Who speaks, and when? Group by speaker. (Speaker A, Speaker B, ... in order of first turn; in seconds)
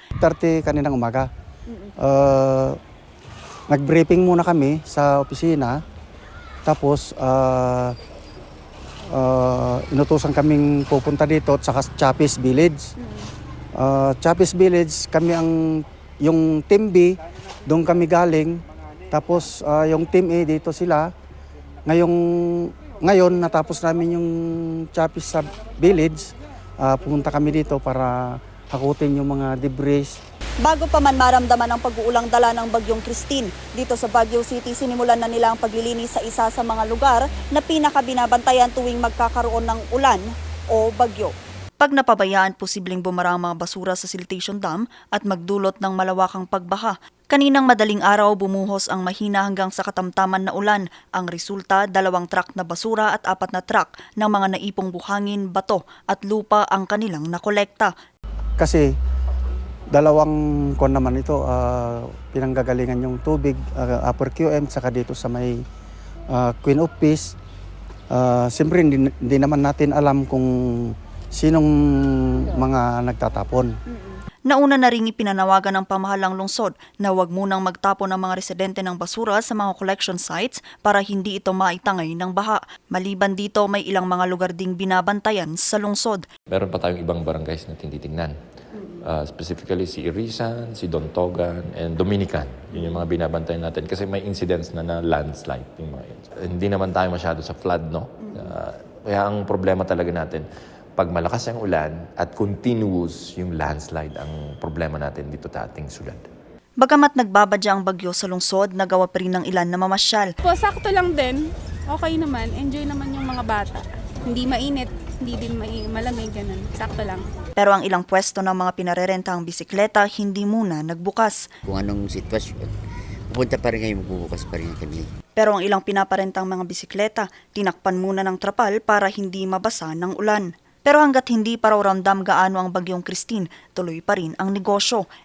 Speaker A: 0.2-1.3, 2.0-2.8, 3.7-5.8, 6.7-8.0, 9.1-12.9, 13.8-21.1, 21.9-30.2, 58.6-58.9, 59.9-65.6, 66.3-67.3, 68.1-73.8
Speaker B: 30.6-57.9, 74.5-86.2, 106.8-110.3, 117.6-121.5, 125.4-135.1
Speaker C: 86.5-88.3, 88.9-100.4, 101.0-106.2
Speaker D: 110.4-117.2
Speaker E: 121.6-122.7, 123.3-125.1